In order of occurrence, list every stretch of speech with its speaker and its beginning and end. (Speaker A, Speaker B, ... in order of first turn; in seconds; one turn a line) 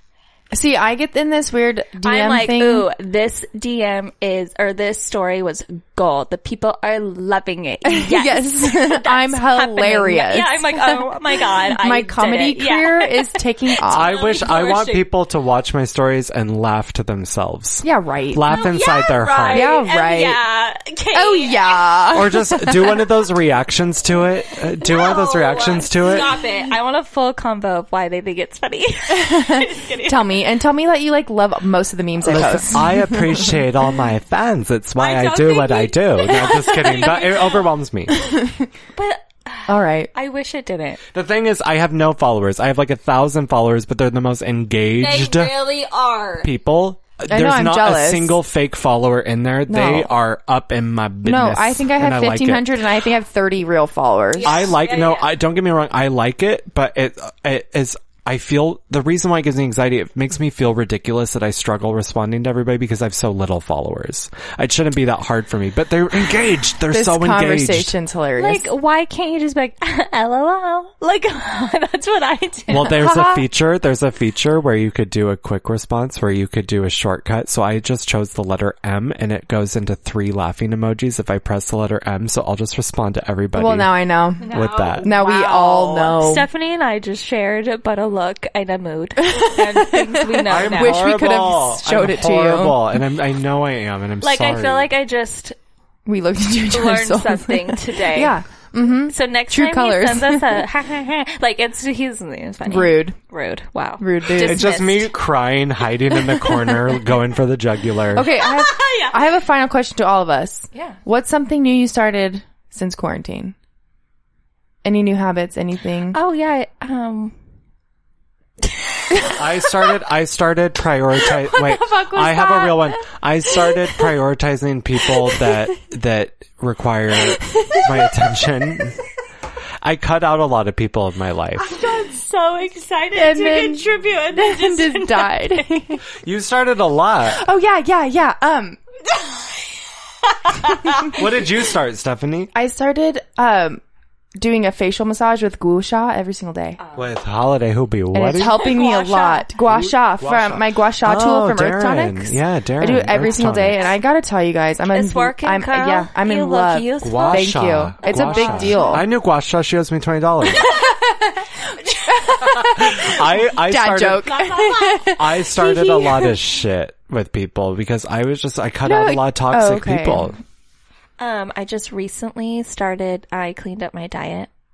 Speaker A: 0.5-2.9
Speaker B: 2.0-15.1
Speaker A: 7.9-11.1
Speaker A: 11.7-14.1
Speaker C: 13.9-19.8
Speaker A: 17.8-18.6
Speaker B: 18.5-22.1
Speaker A: 19.5-20.4
Speaker A: 21.1-23.0
Speaker C: 22.1-26.3
Speaker B: 24.8-30.4
Speaker A: 29.1-33.6
Speaker C: 32.2-38.1
Speaker B: 35.0-37.7
Speaker A: 38.2-38.7
Speaker B: 39.0-41.0
Speaker A: 39.7-40.1
Speaker C: 41.1-45.6
Speaker B: 45.0-46.5
Speaker C: 46.4-52.7
Speaker A: 47.3-48.4
Speaker A: 49.7-50.1
Speaker A: 51.2-54.7
Speaker B: 54.4-55.3
Speaker C: 54.5-67.9
Speaker A: 66.9-68.7
Speaker B: 68.4-73.1
Speaker C: 72.7-83.9
Speaker A: 72.9-73.5
Speaker A: 83.5-86.5
Speaker B: 84.4-91.0
Speaker C: 84.5-85.1
Speaker A: 89.3-93.0
Speaker C: 90.5-94.9
Speaker B: 94.2-95.6
Speaker A: 96.1-100.7
Speaker B: 96.7-98.4
Speaker B: 99.1-105.1
Speaker A: 102.7-103.2
Speaker A: 104.0-104.8
Speaker C: 104.4-108.3
Speaker A: 106.1-107.0
Speaker A: 108.1-113.5
Speaker B: 108.3-109.4
Speaker A: 114.8-116.2
Speaker B: 116.1-117.3
Speaker B: 118.7-119.3
Speaker C: 119.2-129.0
Speaker B: 121.5-122.8
Speaker A: 122.1-122.8
Speaker C: 129.8-131.7
Speaker B: 131.6-136.0
Speaker A: 133.2-136.0
Speaker C: 136.2-137.4
Speaker A: 137.2-138.8
Speaker B: 139.1-141.4
Speaker C: 141.1-142.5
Speaker A: 142.6-143.8
Speaker A: 144.4-146.8
Speaker B: 146.8-147.1
Speaker C: 147.0-148.6
Speaker A: 148.1-159.0
Speaker B: 148.4-149.5
Speaker C: 149.7-153.8
Speaker B: 154.9-159.1
Speaker C: 157.0-160.7
Speaker B: 160.4-162.7
Speaker A: 160.7-161.1
Speaker A: 161.7-166.4
Speaker C: 162.4-164.3
Speaker B: 164.2-165.2
Speaker C: 165.2-170.4
Speaker A: 168.8-170.3
Speaker B: 171.2-174.5